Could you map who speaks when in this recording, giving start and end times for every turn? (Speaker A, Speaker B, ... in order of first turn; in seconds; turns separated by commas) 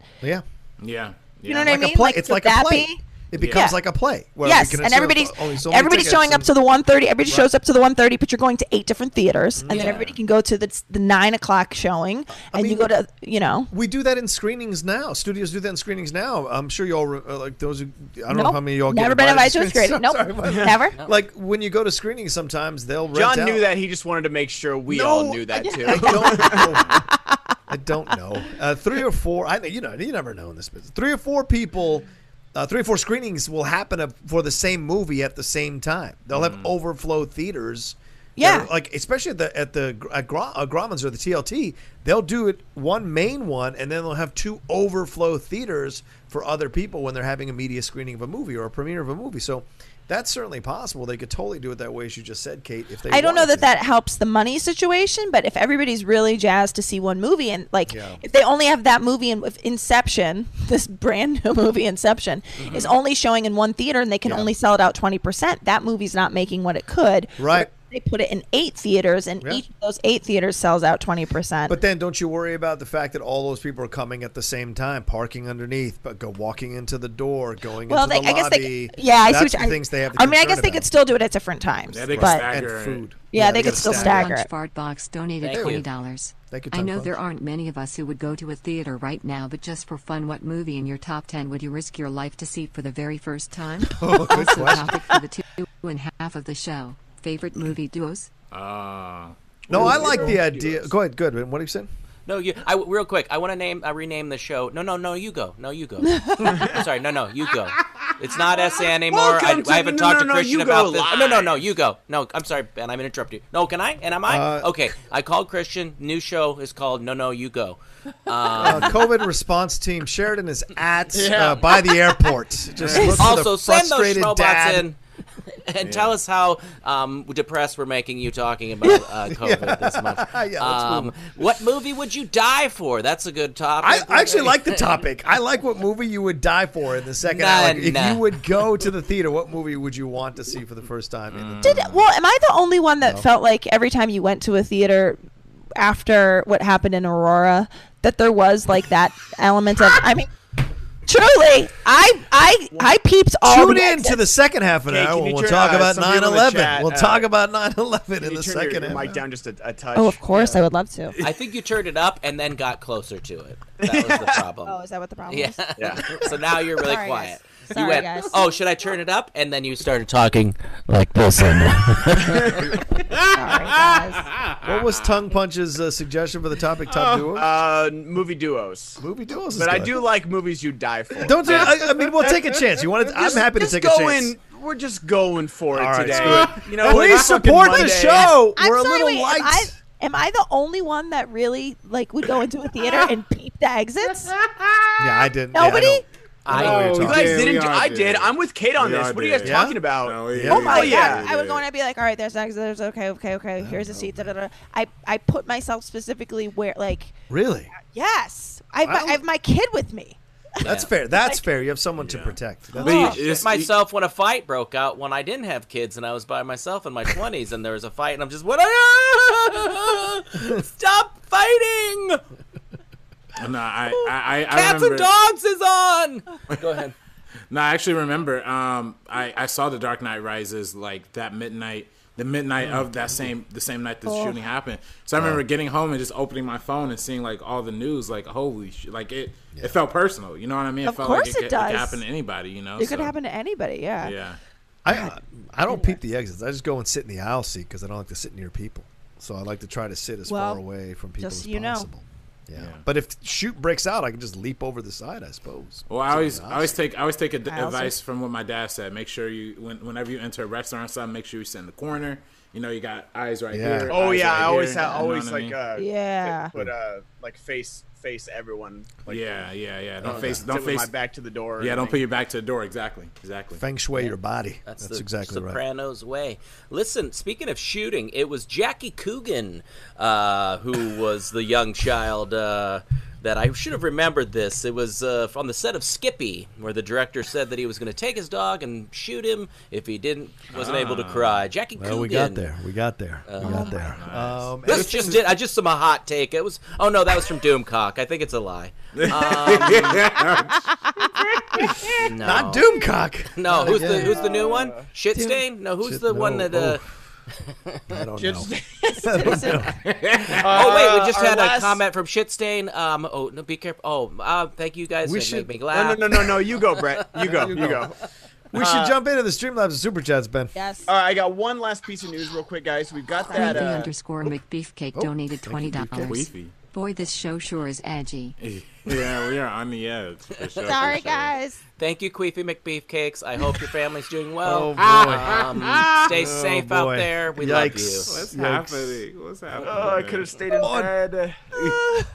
Speaker A: 0.8-1.8, Speaker B: 1.5-3.8, Speaker C: 1.6-6.5, Speaker A: 3.3-3.6, Speaker B: 4.4-13.7, Speaker C: 9.6-10.1, Speaker A: 9.7-10.2, Speaker C: 12.5-12.9, Speaker C: 13.7-23.6, Speaker B: 18.3-21.0, Speaker D: 20.4-20.7, Speaker D: 23.1-26.8, Speaker C: 24.9-27.0, Speaker B: 25.6-27.6, Speaker C: 27.7-53.7, Speaker A: 36.3-36.7, Speaker B: 38.4-38.7, Speaker B: 53.1-71.8, Speaker C: 57.9-58.2, Speaker E: 62.6-62.9, Speaker C: 64.2-64.5, Speaker C: 67.4-67.7, Speaker C: 71.7-80.9, Speaker B: 77.9-82.5, Speaker A: 81.9-83.0, Speaker C: 82.1-84.3, Speaker B: 83.3-84.5, Speaker F: 83.4-98.3, Speaker E: 85.4-85.8, Speaker C: 85.6-85.8, Speaker C: 86.5-87.2, Speaker C: 93.9-95.1, Speaker A: 98.5-100.0, Speaker C: 99.7-101.9, Speaker E: 99.7-100.8, Speaker E: 102.3-119.1, Speaker B: 106.1-106.6, Speaker A: 107.8-108.1, Speaker D: 109.1-111.6, Speaker C: 114.3-114.7, Speaker C: 118.6-124.8, Speaker D: 121.1-122.1, Speaker A: 122.8-123.1, Speaker B: 122.9-123.2, Speaker E: 123.2-135.0, Speaker A: 125.8-126.2, Speaker C: 128.8-131.5, Speaker C: 133.8-141.8, Speaker E: 137.3-138.3, Speaker A: 141.3-142.0, Speaker B: 141.6-150.3, Speaker B: 151.1-154.2, Speaker C: 153.4-159.2, Speaker D: 154.9-157.3, Speaker D: 158.2-160.7, Speaker B: 159.9-161.2, Speaker E: 161.2-172.4, Speaker D: 163.8-164.4, Speaker B: 164.7-165.6, Speaker D: 165.8-166.2, Speaker B: 166.8-168.5, Speaker D: 172.2-172.7, Speaker A: 173.1-175.0, Speaker B: 173.3-174.3, Speaker C: 174.6-177.6, Speaker D: 177.0-179.0, Speaker C: 179.0-179.9, Speaker D: 179.5-181.8, Speaker C: 181.2-184.3, Speaker A: 181.5-181.8, Speaker D: 183.0-188.3, Speaker C: 185.7-189.8, Speaker A: 186.1-186.9, Speaker B: 187.7-194.3, Speaker A: 194.0-195.3, Speaker C: 195.0-197.5, Speaker B: 195.5-196.1, Speaker E: 196.5-196.9, Speaker A: 196.5-201.6, Speaker D: 196.6-201.3, Speaker C: 199.4-200.7, Speaker B: 200.5-207.2, Speaker C: 203.6-204.3, Speaker C: 207.3-207.7, Speaker B: 207.8-210.2, Speaker C: 208.8-209.2, Speaker E: 210.6-210.9, Speaker C: 210.6-213.2, Speaker B: 211.1-211.4, Speaker A: 212.0-213.7, Speaker B: 212.8-213.2, Speaker E: 212.8-222.2, Speaker A: 223.4-225.1, Speaker E: 223.9-226.9, Speaker A: 226.5-226.8, Speaker A: 227.5-243.1, Speaker C: 232.6-233.3, Speaker B: 234.1-234.4, Speaker C: 235.2-235.4, Speaker B: 240.8-242.0, Speaker B: 242.8-244.1, Speaker A: 244.0-244.4, Speaker C: 244.8-256.8, Speaker B: 244.9-245.2, Speaker B: 245.7-246.0, Speaker B: 250.3-250.6, Speaker B: 251.2-251.9, Speaker A: 252.6-252.8, Speaker A: 255.9-265.6, Speaker B: 257.5-258.0, Speaker C: 263.5-263.9, Speaker D: 263.9-269.2, Speaker B: 265.8-266.5, Speaker A: 269.1-270.9, Speaker C: 270.0-270.4, Speaker D: 270.0-272.0, Speaker A: 271.6-273.6, Speaker C: 273.5-275.6, Speaker E: 274.7-292.5, Speaker A: 290.5-291.4, Speaker C: 291.8-295.3, Speaker E: 293.3-293.9, Speaker B: 293.4-293.7, Speaker A: 293.8-294.9, Speaker E: 294.7-300.1, Speaker A: 299.0-302.1, Speaker D: 299.2-299.7, Speaker B: 300.5-301.2, Speaker E: 302.0-302.7, Speaker C: 302.2-304.2, Speaker E: 303.4-306.8, Speaker D: 303.6-304.9, Speaker C: 305.1-307.1, Speaker E: 307.4-307.8, Speaker C: 307.9-308.5, Speaker D: 308.2-309.5, Speaker B: 308.9-309.8, Speaker C: 309.0-309.8, Speaker A: 309.9-310.8, Speaker D: 310.4-311.8, Speaker E: 310.4-317.5, Speaker C: 315.0-315.5, Speaker D: 315.7-318.0, Speaker C: 317.1-317.9, Speaker C: 318.5-320.5, Speaker D: 318.6-318.9, Speaker B: 320.6-320.9, Speaker D: 320.9-323.9, Speaker B: 323.3-323.7, Speaker F: 323.3-328.4, Speaker C: 324.9-326.2, Speaker A: 326.0-326.5, Speaker A: 328.4-331.3, Speaker B: 330.6-331.6, Speaker E: 331.8-338.3, Speaker C: 334.4-335.5, Speaker A: 334.8-336.1, Speaker C: 336.1-339.0, Speaker A: 338.1-340.3, Speaker D: 339.6-341.8, Speaker C: 340.6-340.9, Speaker B: 341.6-342.1